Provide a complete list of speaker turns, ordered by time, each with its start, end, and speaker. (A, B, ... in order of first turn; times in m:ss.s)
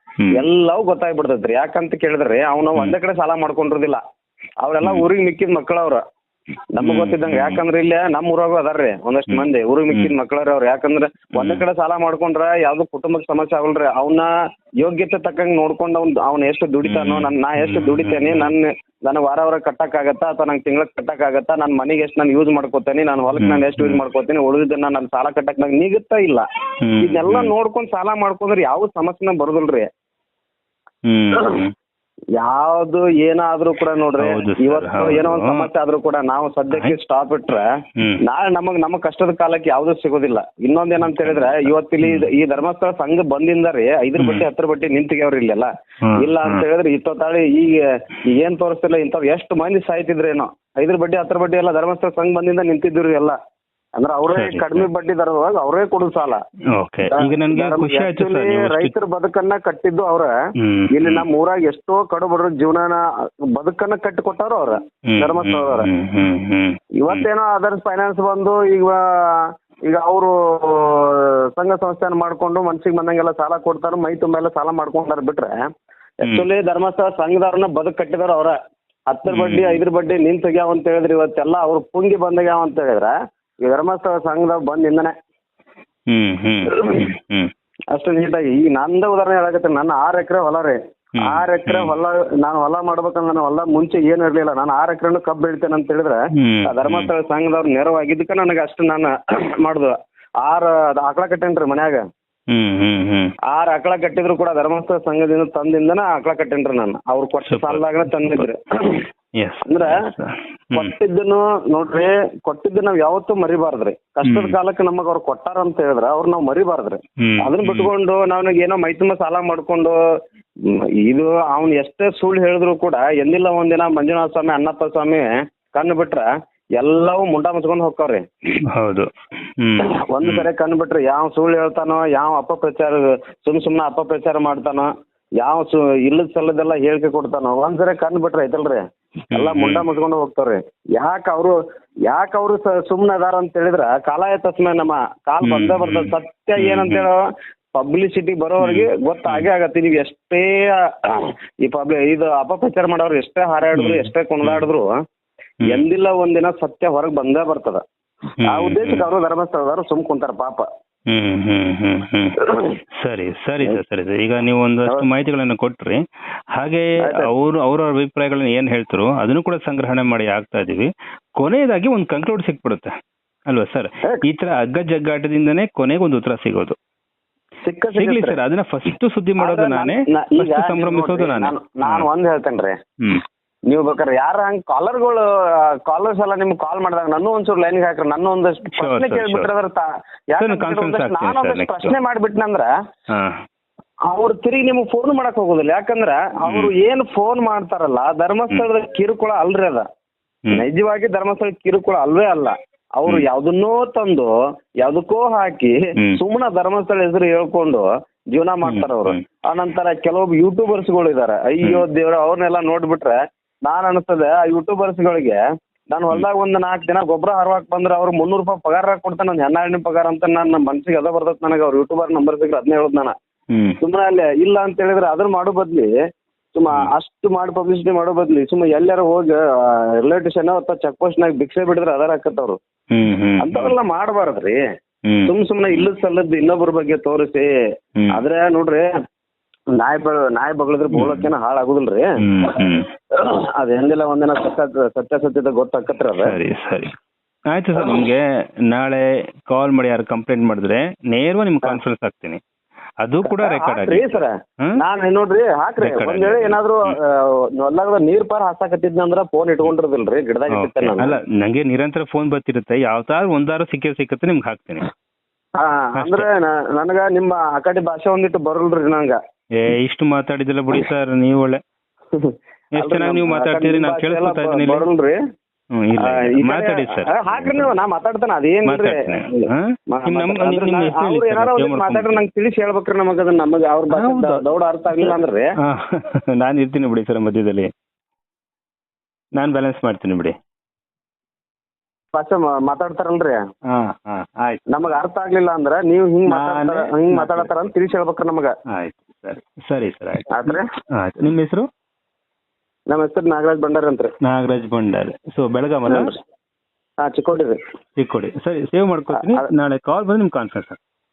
0:00.3-0:04.0 A
0:04.6-0:06.0 A
0:04.8-0:05.1 B
0:06.7-0:26.4 A
0:06.8-0:07.6 B
0:09.3-0:10.1 B
0:11.3-0:11.6 B
0:16.8-0:18.5 B
0:23.4-0:24.0 B
0:26.8-0:27.5 B
0:27.0-0:29.9 A
0:31.0-0:31.7 B
0:31.3-0:31.6 A
0:32.4-0:53.4 A
0:34.2-0:35.6 B
0:41.0-0:42.3 B
0:44.2-0:44.4 B
0:46.1-0:46.6 B
0:54.0-0:56.4 A
0:54.3-0:54.9 B
0:56.7-0:58.9 B
0:57.0-1:00.3 A
1:00.6-1:01.2 B
1:00.9-1:05.9 A
1:05.1-1:07.3 B
1:07.0-1:15.6 A
1:16.2-1:18.6 A
1:19.1-1:23.1 A
1:19.3-1:19.8 B
1:23.6-1:25.1 A
1:26.1-1:27.5 B
1:26.7-1:27.0 A
1:27.9-1:42.0 A
1:31.2-1:32.0 B
1:36.4-1:37.1 B
1:42.5-1:43.3 B
1:43.5-1:49.1 A
1:47.4-1:48.4 B
1:49.4-1:50.9 B
1:49.6-1:50.1 A
1:50.7-2:00.0 A
1:54.2-1:54.6 B
1:57.2-1:57.9 B
2:00.7-2:06.2 A
2:06.8-2:08.2 A
2:08.7-2:10.5 B
2:09.8-2:27.2 A
2:19.3-2:19.8 B
2:25.4-2:27.0 B
2:27.7-2:34.9 A
2:28.6-2:29.5 B
2:33.7-2:34.7 B
2:35.6-2:37.8 A
2:38.4-2:39.1 B
2:38.4-2:40.7 A
2:41.1-2:42.4 B
2:42.4-2:42.7 A
2:42.9-2:46.0 B
2:46.5-2:52.9 B
2:47.0-2:47.3 A
2:53.5-2:56.8 B
2:57.6-2:58.4 A
2:57.9-3:02.1 B
2:59.4-3:02.8 A
3:03.7-3:12.7 A
3:08.7-3:09.5 B
3:10.4-3:11.9 B
3:13.1-3:13.4 B
3:14.1-3:19.9 A
3:16.4-3:16.7 B
3:20.5-3:35.4 A
3:28.6-3:29.2 B
3:35.9-3:43.1 A
3:43.5-3:43.8 B
3:43.8-3:45.9 A
3:46.6-3:52.6 A
3:52.9-3:53.7 B
3:53.4-3:54.6 A
3:55.0-3:55.9 B
3:55.2-3:57.5 A
3:58.1-3:58.9 A
3:59.7-4:02.6 A
4:00.9-4:01.3 B
4:02.2-4:02.9 B
4:03.1-4:06.4 A
4:06.1-4:06.9 B
4:07.5-4:12.4 B
4:13.0-4:14.8 B
4:13.2-4:21.2 A
4:15.8-4:16.9 B
4:20.5-4:24.9 B
4:25.6-4:29.2 A
4:25.9-4:26.3 B
4:29.5-4:31.6 B
4:32.1-4:35.2 A
4:32.7-4:34.8 B
4:35.7-4:37.7 B
4:36.0-4:45.5 A
4:38.6-4:42.2 B
4:43.9-4:47.7 B
4:49.3-4:50.3 B
4:52.1-4:53.4 A
4:53.7-4:54.6 B
4:54.7-4:58.5 A
4:56.3-4:57.5 B
4:58.7-5:01.7 B
5:00.3-5:00.7 A
5:02.9-5:04.1 A
5:04.2-5:06.1 B
5:05.9-5:06.2 A
5:07.0-5:07.6 A
5:08.0-5:10.8 B
5:09.1-5:09.5 A